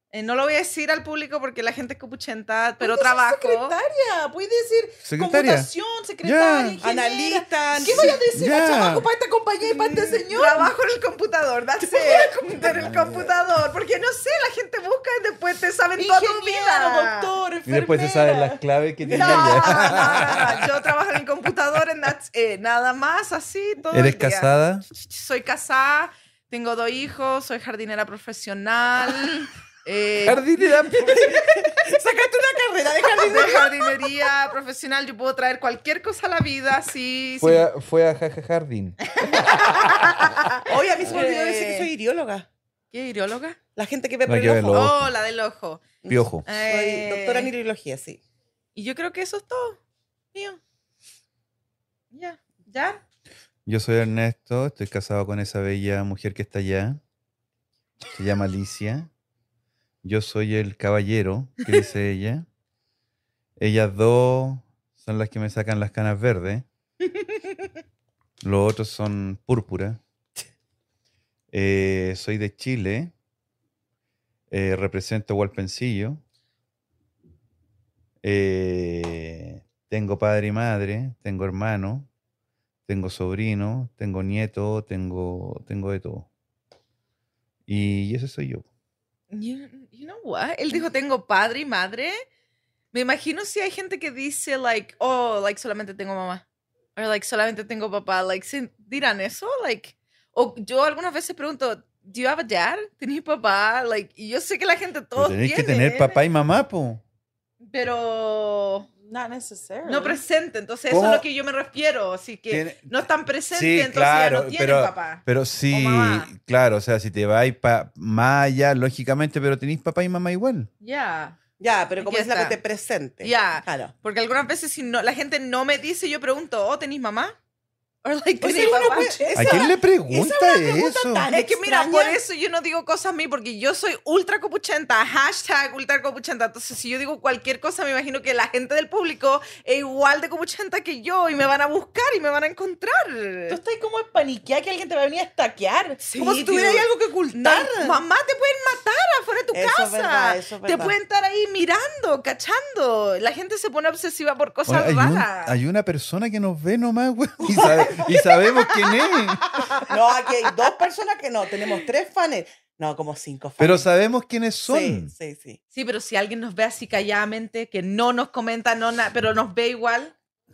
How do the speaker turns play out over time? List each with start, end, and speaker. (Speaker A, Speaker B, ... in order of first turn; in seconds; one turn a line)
Speaker A: 0.1-3.8
Speaker B: 2.8-10.7
Speaker C: 5.0-5.7
Speaker C: 6.2-6.8
Speaker D: 6.8-8.2
Speaker C: 7.8-9.1
Speaker A: 10.0-17.3
Speaker D: 12.0-12.3
Speaker C: 12.6-13.3
Speaker B: 16.0-20.1
Speaker C: 17.7-20.8
Speaker D: 19.1-19.4
Speaker A: 19.1-31.4
Speaker C: 23.9-24.9
Speaker C: 30.2-31.6
Speaker D: 31.2-34.3
Speaker A: 33.0-37.7
Speaker C: 37.4-40.2
Speaker A: 39.1-41.9
Speaker D: 40.6-42.5
Speaker A: 42.9-43.6
Speaker D: 43.8-44.9
Speaker C: 44.3-45.1
Speaker A: 44.7-45.9
Speaker D: 46.0-48.2
Speaker C: 46.1-46.5
Speaker A: 46.5-47.5
Speaker A: 48.8-49.8
Speaker A: 50.3-50.6
Speaker A: 52.1-53.0
Speaker C: 53.7-57.0
Speaker C: 58.1-59.1
Speaker C: 60.0-62.5
Speaker C: 63.6-66.7
Speaker C: 68.4-70.0
Speaker C: 71.5-73.1
Speaker C: 74.5-76.2
Speaker C: 78.2-82.1
Speaker C: 82.9-86.3
Speaker C: 87.7-88.7
Speaker A: 89.3-92.2
Speaker A: 92.9-96.4
Speaker A: 97.0-106.2
Speaker C: 105.2-107.0
Speaker A: 107.6-108.9
Speaker B: 109.0-110.2
Speaker A: 109.9-116.3
Speaker C: 110.9-111.2
Speaker C: 112.5-113.0
Speaker C: 113.5-120.7
Speaker A: 120.8-121.4
Speaker D: 121.6-123.9
Speaker A: 122.0-122.6
Speaker A: 123.2-127.4
Speaker A: 128.0-129.1
Speaker D: 128.4-132.2
Speaker B: 128.9-129.6
Speaker C: 129.3-131.3
Speaker A: 131.3-143.6
Speaker B: 143.5-146.0
Speaker A: 146.0-155.6
Speaker D: 146.2-148.0
Speaker D: 149.5-150.9
Speaker C: 154.7-159.6
Speaker D: 157.4-158.3
Speaker A: 158.1-158.5
Speaker D: 159.8-163.9
Speaker C: 163.6-165.1
Speaker D: 164.7-165.6
Speaker A: 165.7-170.1